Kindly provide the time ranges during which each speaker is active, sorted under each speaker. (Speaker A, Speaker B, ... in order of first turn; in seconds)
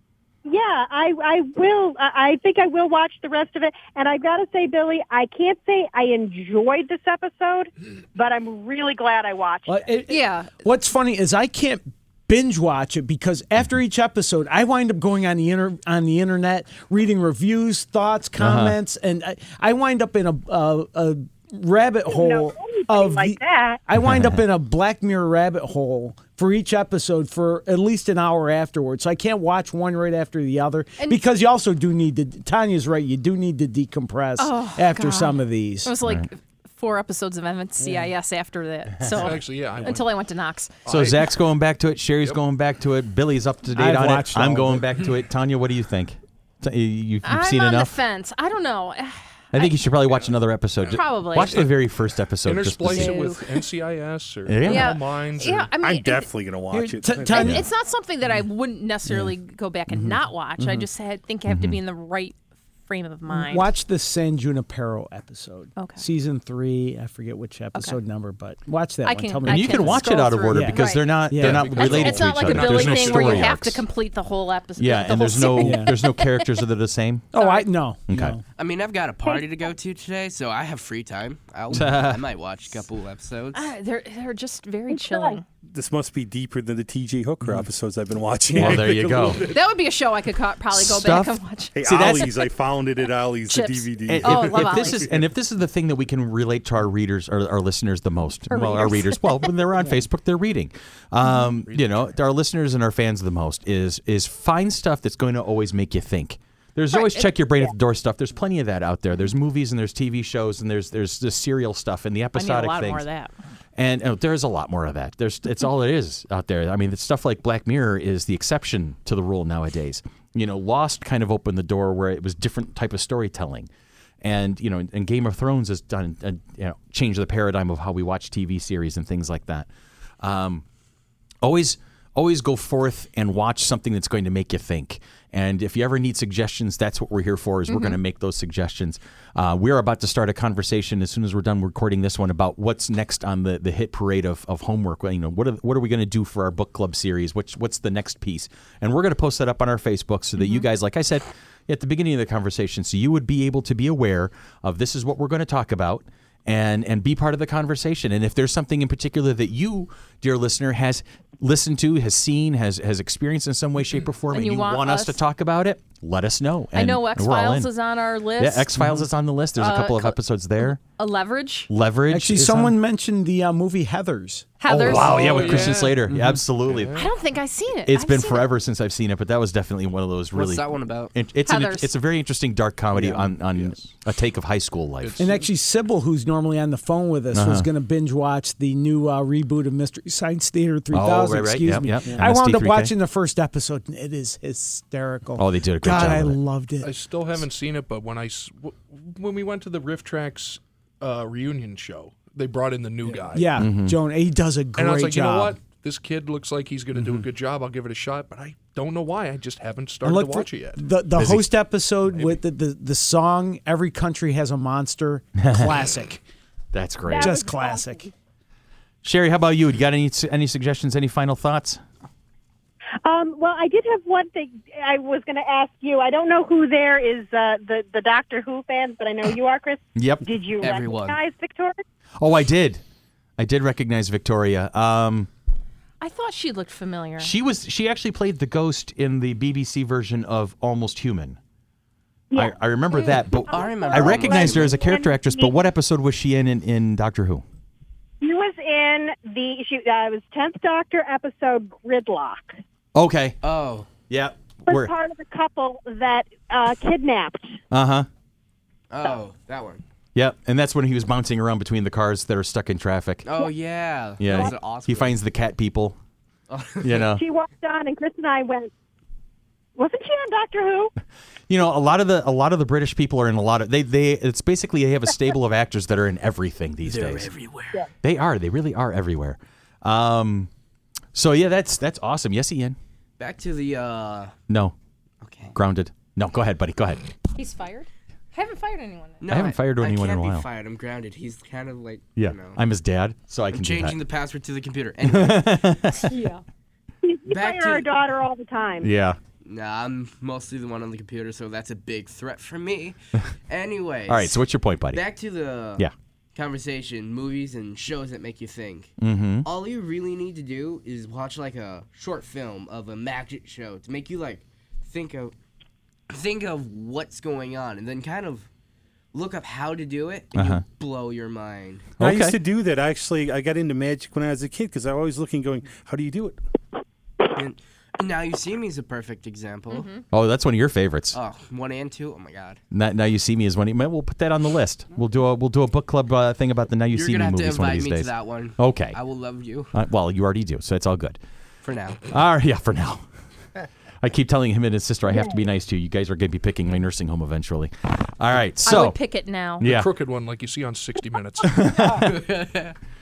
Speaker A: 0.5-9.8, 22.1-23.8, 79.2-79.7, 84.9-85.4, 217.1-218.1, 223.0-231.8, 242.3-245.5, 248.2-252.6, 254.7-257.6, 267.1-268.7, 269.8-270.9, 297.0-298.9
Speaker B: 9.7-35.9, 37.8-38.1, 43.7-45.0, 56.7-57.6, 63.3-70.8, 71.3-71.7, 75.6-75.9, 77.3-78.4, 168.8-169.0, 172.1-174.6, 176.1-176.4, 183.0-183.2, 185.2-196.9, 203.3-205.6, 210.0-216.2, 217.1-218.1
Speaker C: 10.1-10.6, 34.4-40.8, 47.2-49.8, 50.9-51.6, 52.9-53.4, 54.6-56.3, 57.3-63.7, 65.8-66.0, 69.0-76.6, 77.4-77.7, 83.5-85.4, 89.3-92.3, 93.5-95.1, 98.5-99.5, 106.9-107.3, 112.3-113.3, 137.7-138.0, 150.4-150.7, 164.3-165.2, 166.7-168.8, 169.6-171.7, 174.6-175.9, 176.9-178.5, 181.5-181.9, 236.0-237.3, 287.4-289.2, 296.1-296.4, 329.7-330.0, 348.6-349.7
Speaker D: 18.4-18.8, 24.0-24.4, 40.9-48.0, 49.5-53.3, 54.5-55.0, 61.5-61.8, 69.5-73.8, 74.8-77.3, 78.1-78.4, 81.7-82.2, 88.6-89.5, 90.7-92.3, 94.1-113.0, 113.8-123.7, 124.2-129.7, 130.2-130.6, 131.4-167.7, 168.4-170.8, 171.7-172.8, 174.7-177.0, 177.9-185.3, 187.3-187.7, 190.9-192.9, 195.4-196.4, 203.6-204.0, 211.2-211.4, 215.4-215.7, 216.7-217.5, 219.0-221.8, 229.9-230.2, 232.2-232.8, 233.4-235.3, 237.2-241.4, 242.3-247.4, 252.9-253.4, 254.1-254.9, 257.7-258.1, 260.1-263.3, 264.2-266.0, 266.8-267.2, 271.5-277.3, 278.0-280.5, 281.1-282.8, 284.5-284.8, 285.5-287.1, 289.3-290.5, 292.2-294.0, 295.0-296.1, 298.8-299.2, 304.1-305.0, 309.0-309.5, 320.3-320.6, 322.0-322.4, 330.1-331.2, 332.7-339.0, 339.7-341.2, 342.1-343.0, 344.0-349.0, 349.6-349.9, 351.4-352.2
Speaker E: 39.1-40.1, 40.9-41.3, 50.9-51.7, 52.4-55.7, 71.4-73.6, 174.8-177.1, 183.6-183.9, 185.0-185.3, 196.8-203.6, 204.8-210.8, 212.1-212.4, 349.6-351.6
Speaker F: 55.8-57.5, 85.7-89.6, 91.7-95.2, 322.0-326.4
Speaker G: 78.5-83.7, 180.3-181.1, 230.6-231.2, 243.5-244.8, 253.4-253.9, 258.9-259.8, 263.2-265.2, 266.5-267.0, 276.8-277.9, 283.2-284.3, 285.2-285.6, 289.2-292.6, 293.5-295.8, 297.3-297.9, 299.4-303.0, 303.5-308.9, 309.4-315.4, 316.1-318.5, 319.1-321.9, 327.4-329.9, 331.1-332.6, 336.9-339.7, 341.6-342.1, 351.9-352.8